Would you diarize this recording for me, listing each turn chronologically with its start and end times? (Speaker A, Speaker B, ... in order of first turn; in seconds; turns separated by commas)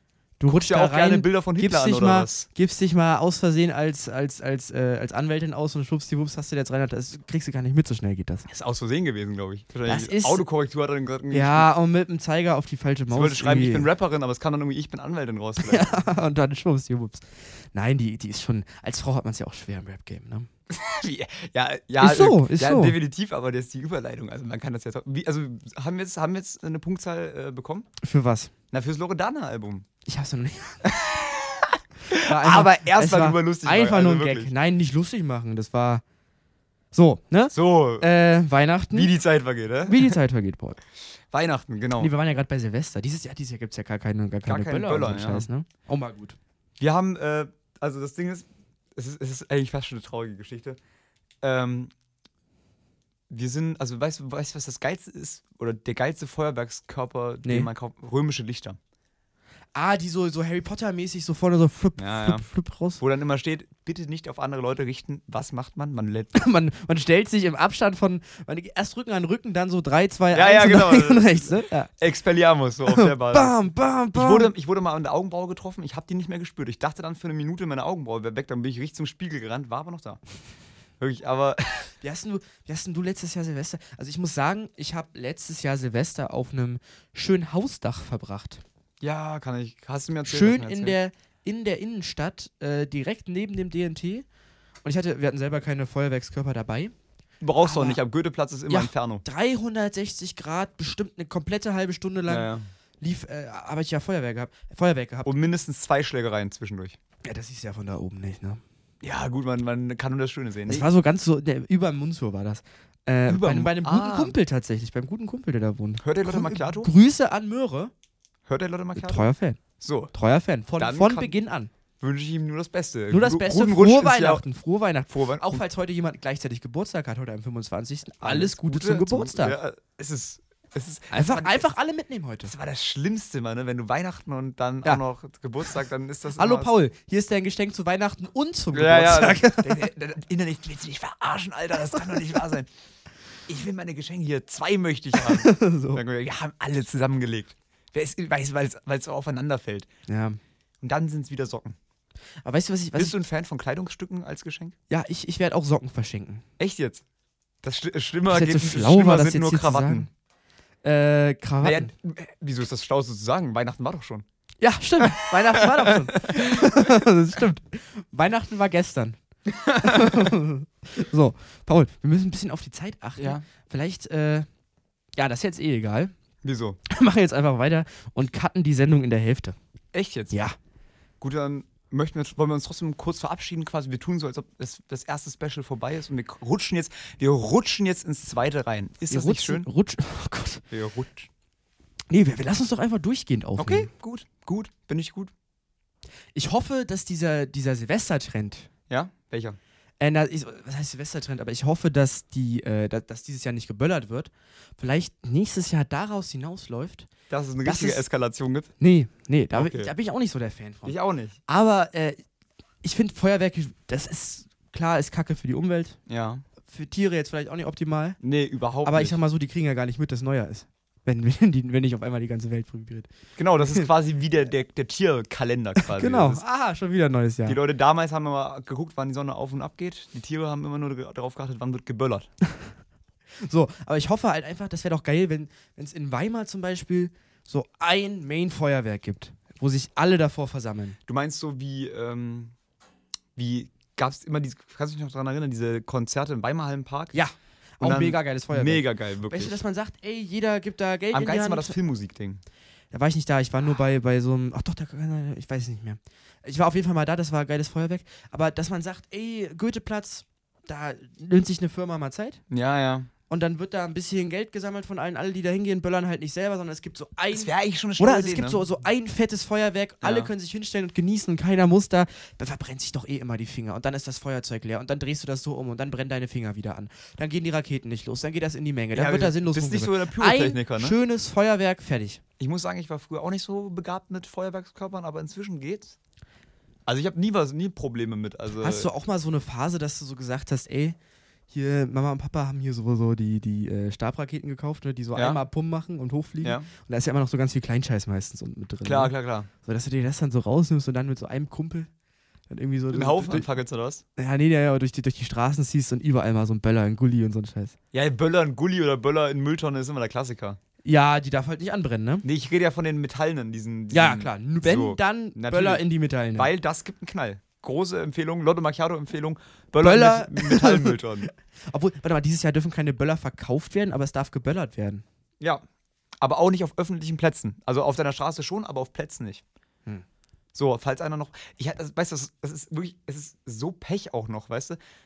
Speaker A: 0.4-8.5, Speaker B: 0.5-2.5, Speaker B: 8.5-11.7, Speaker A: 9.8-10.4, Speaker A: 11.3-13.9, Speaker B: 13.1-16.0, Speaker A: 15.6-20.5, Speaker B: 20.7-27.9, Speaker A: 22.0-23.0, Speaker A: 28.0-28.5, Speaker B: 28.7-29.9, Speaker A: 30.1-30.9, Speaker B: 30.8-34.5, Speaker A: 32.1-36.0, Speaker A: 36.9-39.1, Speaker B: 37.5-38.1, Speaker B: 38.9-40.1, Speaker A: 39.9-40.8, Speaker B: 41.3-42.1, Speaker A: 42.0-46.4, Speaker B: 44.4-45.5, Speaker B: 46.8-50.8, Speaker B: 51.4-51.9, Speaker B: 53.3-58.8, Speaker A: 57.4-57.7, Speaker A: 59.7-63.0, Speaker B: 62.0-62.5, Speaker B: 63.0-66.3, Speaker A: 66.3-71.9, Speaker B: 70.3-80.2, Speaker A: 72.9-74.5, Speaker B: 81.0-81.9, Speaker A: 82.0-88.6, Speaker B: 89.0-91.0, Speaker A: 90.2-94.2, Speaker A: 94.8-96.9, Speaker B: 97.4-99.2, Speaker A: 97.6-98.0, Speaker A: 98.7-105.3, Speaker B: 102.3-102.6, Speaker B: 105.2-107.0, Speaker A: 107.2-108.6, Speaker B: 109.0-110.9, Speaker A: 110.7-117.9, Speaker B: 113.3-114.3, Speaker B: 116.0-116.9, Speaker B: 118.5-119.3, Speaker A: 119.0-119.6, Speaker B: 119.8-120.1, Speaker A: 120.1-121.7, Speaker B: 120.8-121.3, Speaker B: 122.0-124.4, Speaker A: 123.1-129.6, Speaker B: 125.1-125.6, Speaker B: 128.2-131.6, Speaker A: 131.1-132.5, Speaker B: 132.4-136.7, Speaker A: 136.3-139.9, Speaker B: 138.7-142.7, Speaker B: 143.5-149.9, Speaker A: 145.2-146.0, Speaker A: 150.1-150.4, Speaker B: 150.8-151.8, Speaker A: 152.4-153.2, Speaker B: 152.9-154.8, Speaker A: 154.9-156.4, Speaker B: 156.6-157.0, Speaker B: 157.6-160.1, Speaker A: 158.3-160.1, Speaker A: 160.8-161.9, Speaker B: 161.6-164.2, Speaker A: 164.6-169.2, Speaker B: 165.0-166.9, Speaker B: 169.5-170.3, Speaker A: 169.8-174.5, Speaker B: 173.2-173.4, Speaker A: 175.2-176.1, Speaker B: 176.4-176.8, Speaker A: 176.9-179.6, Speaker B: 179.9-180.3, Speaker A: 180.3-180.6, Speaker B: 181.2-189.7, Speaker A: 189.1-190.6, Speaker B: 190.7-191.3, Speaker A: 192.1-193.9, Speaker B: 193.6-195.3, Speaker A: 196.3-198.7, Speaker B: 198.9-199.6, Speaker A: 200.0-207.1, Speaker B: 207.3-208.7, Speaker A: 207.6-208.0, Speaker A: 208.8-210.9, Speaker B: 209.5-209.9, Speaker B: 210.8-211.4, Speaker A: 211.5-212.2, Speaker A: 212.8-216.0, Speaker B: 216.1-216.4, Speaker A: 216.6-218.2, Speaker B: 218.2-219.2, Speaker A: 218.8-223.9, Speaker B: 223.4-226.4, Speaker A: 225.8-227.6, Speaker B: 227.4-232.3, Speaker A: 233.4-241.0, Speaker B: 241.1-242.5, Speaker B: 243.3-247.2, Speaker A: 247.1-251.8, Speaker B: 247.8-249.6, Speaker B: 251.1-252.4, Speaker A: 252.9-262.4, Speaker B: 262.5-263.1, Speaker A: 263.3-282.2, Speaker B: 267.3-268.6, Speaker B: 270.0-270.3, Speaker B: 278.9-281.0, Speaker B: 282.4-286.0, Speaker B: 286.9-288.9, Speaker A: 288.6-291.0, Speaker A: 291.5-301.9, Speaker B: 295.1-295.4, Speaker B: 296.4-296.7, Speaker B: 298.8-299.5, Speaker A: 302.5-303.5, Speaker B: 302.9-304.0, Speaker A: 304.1-307.8, Speaker B: 307.9-310.6, Speaker A: 310.8-312.2, Speaker B: 312.2-321.3, Speaker A: 313.9-316.5, Speaker A: 319.8-325.0, Speaker B: 326.2-329.4, Speaker B: 330.5-334.8